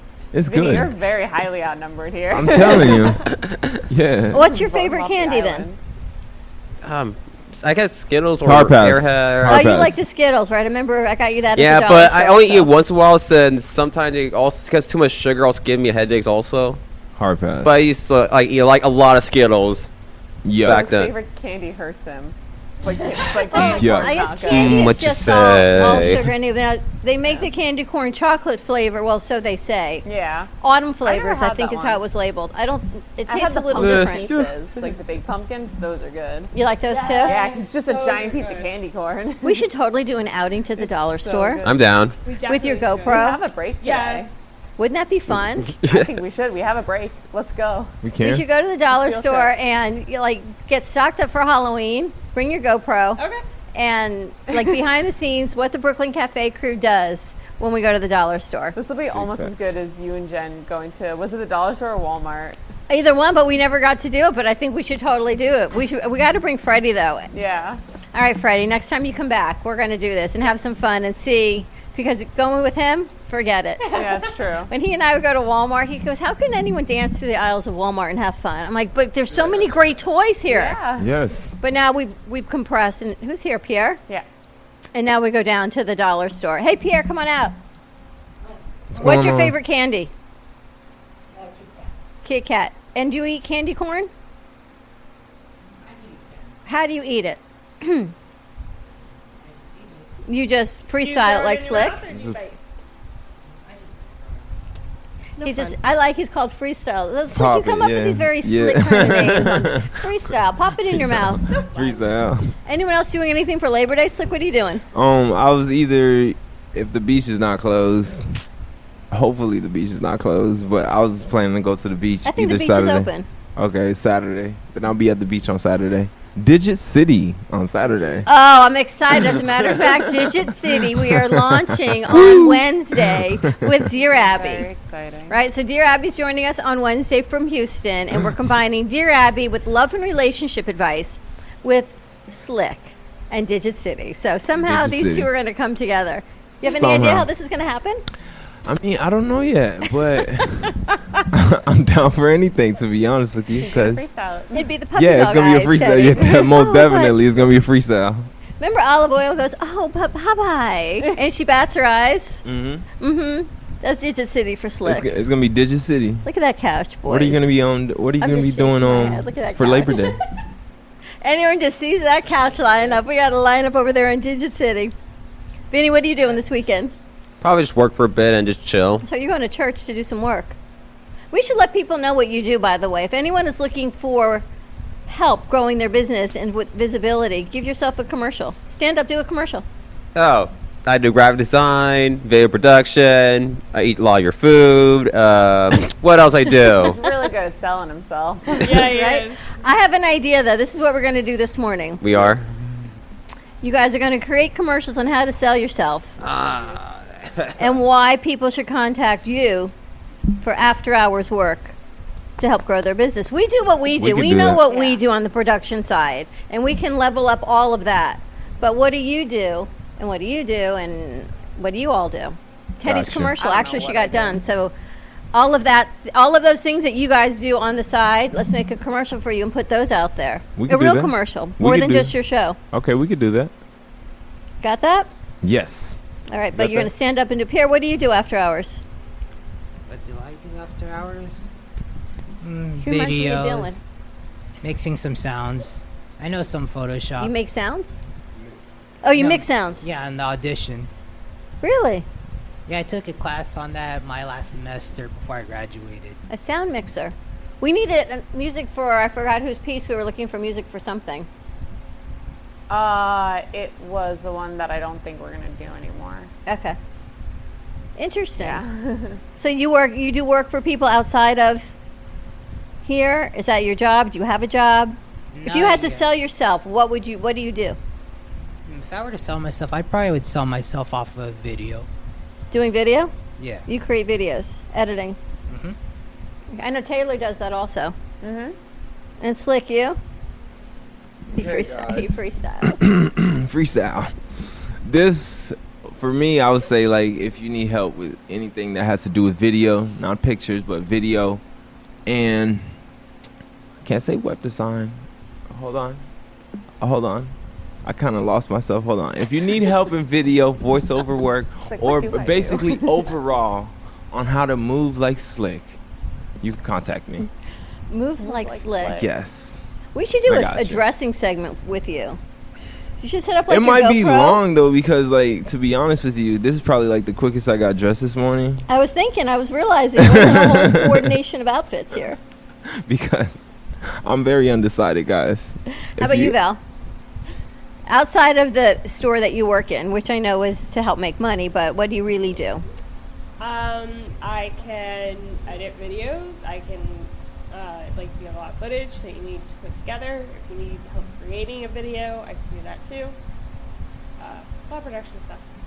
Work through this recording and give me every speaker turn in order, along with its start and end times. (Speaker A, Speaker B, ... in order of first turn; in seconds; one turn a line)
Speaker A: 0.3-0.9
Speaker B: 0.5-3.2
Speaker A: 2.3-3.3
Speaker C: 3.3-3.6
Speaker A: 3.9-4.5
Speaker D: 4.3-5.7
Speaker B: 4.3-5.8
Speaker C: 6.8-9.9
Speaker A: 8.4-10.0
Speaker D: 9.5-12.7
Speaker C: 11.5-16.8
Speaker A: 17.1-17.8
Speaker C: 17.6-19.9
Speaker A: 20.4-20.9
Speaker C: 20.6-21.1
Speaker B: 20.6-24.9
Speaker D: 23.4-30.0
Speaker E: 23.5-23.8
Speaker A: 23.8-24.1
Speaker C: 24.5-26.2
Speaker B: 30.0-30.5
Speaker D: 30.6-34.3
Speaker B: 31.0-32.0
Speaker B: 33.3-36.5
Speaker C: 33.8-34.5
Speaker D: 36.5-37.4
Speaker E: 36.9-38.7
Speaker B: 37.2-39.6
Speaker D: 39.4-41.6
Speaker B: 40.8-41.8
Speaker C: 41.6-42.1
Speaker E: 42.2-43.3
Speaker D: 42.4-43.4
Speaker B: 43.0-44.3
Speaker E: 43.8-44.3
Speaker D: 44.8-45.7
Speaker C: 45.8-46.1
Speaker B: 45.8-47.9
Speaker A: 48.0-48.4
Speaker D: 48.2-53.2
Speaker B: 48.9-49.5
Speaker E: 53.2-53.4
Speaker D: 53.7-58.8
Speaker B: 58.7-62.6
Speaker A: 59.1-59.7
Speaker D: 62.9-67.3
Speaker B: 67.3-67.8
Speaker D: 68.1-74.0
Speaker B: 73.9-74.7
Speaker D: 74.7-80.8
Speaker B: 80.5-81.1
Speaker A: 81.0-81.5
Speaker D: 81.6-84.0
Speaker D: 84.9-87.5
Speaker A: 88.9-89.5
Speaker D: 89.0-90.1
Speaker D: 92.2-94.1
Speaker F: 95.8-96.4
Speaker D: 96.6-98.1
Speaker F: 99.4-100.1
Speaker D: 100.2-102.0
Speaker E: 101.0-102.6
Speaker A: 102.1-102.3
Speaker F: 103.5-104.5
Speaker E: 105.4-105.8
Speaker D: 105.4-111.4
Speaker A: 107.3-109.9
Speaker A: 110.9-112.5
Speaker E: 111.5-112.0
Speaker D: 112.6-114.8
Speaker A: 114.9-118.4
Speaker A: 119.1-128.3
Speaker D: 122.2-123.3
Speaker D: 128.2-134.7
Speaker A: 130.6-133.8
Speaker B: 134.0-135.3
Speaker D: 135.3-148.0
Speaker A: 144.6-145.3
Speaker A: 146.6-147.3
Speaker A: 148.6-154.1
Speaker D: 150.9-151.2
Speaker B: 153.6-154.7
Speaker D: 154.5-157.2
Speaker A: 154.9-158.3
Speaker D: 158.6-162.4
Speaker A: 162.4-162.8
Speaker D: 163.0-165.1
Speaker A: 164.8-166.2
Speaker D: 166.2-167.5
Speaker A: 167.1-170.2
Speaker D: 168.2-170.2
Speaker D: 171.2-174.9
Speaker D: 175.7-176.9
Speaker C: 177.4-179.0
Speaker D: 179.0-180.6
Speaker D: 181.3-184.4
Speaker D: 185.1-189.6
Speaker C: 190.1-197.0
Speaker B: 196.6-198.9
Speaker E: 198.6-199.4
Speaker D: 198.6-202.3
Speaker C: 202.0-202.4
Speaker D: 203.6-206.2
Speaker C: 206.2-207.7
Speaker D: 207.6-209.7
Speaker D: 210.4-211.8
Speaker D: 212.4-224.7
Speaker A: 213.9-214.6
Speaker E: 214.7-215.0
Speaker A: 222.8-223.3
Speaker B: 223.4-224.3
Speaker D: 225.3-232.6
Speaker A: 230.6-232.1
Speaker A: 232.7-233.5
Speaker D: 234.6-235.1
Speaker A: 235.4-236.0
Speaker D: 236.3-238.8
Speaker A: 236.5-236.9
Speaker F: 239.9-241.5
Speaker F: 242.4-243.8
Speaker D: 242.8-243.8
Speaker F: 244.6-247.3
Speaker D: 247.2-248.0
Speaker D: 249.0-249.8
Speaker F: 249.1-250.9
Speaker D: 251.6-252.1
Speaker F: 252.7-256.2
Speaker D: 256.3-261.3
Speaker B: 262.7-266.3
Speaker D: 266.4-266.8
Speaker D: 268.0-268.6
Speaker B: 268.4-269.2
Speaker D: 269.4-271.7
Speaker D: 272.8-277.8
Speaker F: 275.3-276.1
Speaker F: 278.7-281.9
Speaker D: 282.5-283.1
Speaker F: 283.4-283.6
Speaker D: 283.7-285.2
Speaker F: 285.5-285.8
Speaker D: 286.5-287.9
Speaker B: 288.2-288.6
Speaker D: 289.2-290.0
Speaker D: 291.3-292.9
Speaker A: 291.4-301.4
Speaker A: 302.1-302.6
Speaker A: 303.8-306.0
Speaker A: 306.8-315.8
Speaker B: 311.7-313.0
Speaker A: 316.4-317.3
Speaker D: 317.9-319.0
Speaker B: 318.2-319.1
Speaker A: 319.0-319.6
Speaker D: 319.9-322.2
Speaker A: 320.3-320.8
Speaker D: 323.0-324.4
Speaker A: 323.5-328.6
Speaker D: 328.7-332.2
Speaker A: 330.0-331.1
Speaker A: 332.7-336.3
Speaker D: 336.0-336.6
Speaker D: 337.9-342.6
Speaker E: 343.4-353.1
Speaker E: 354.2-355.4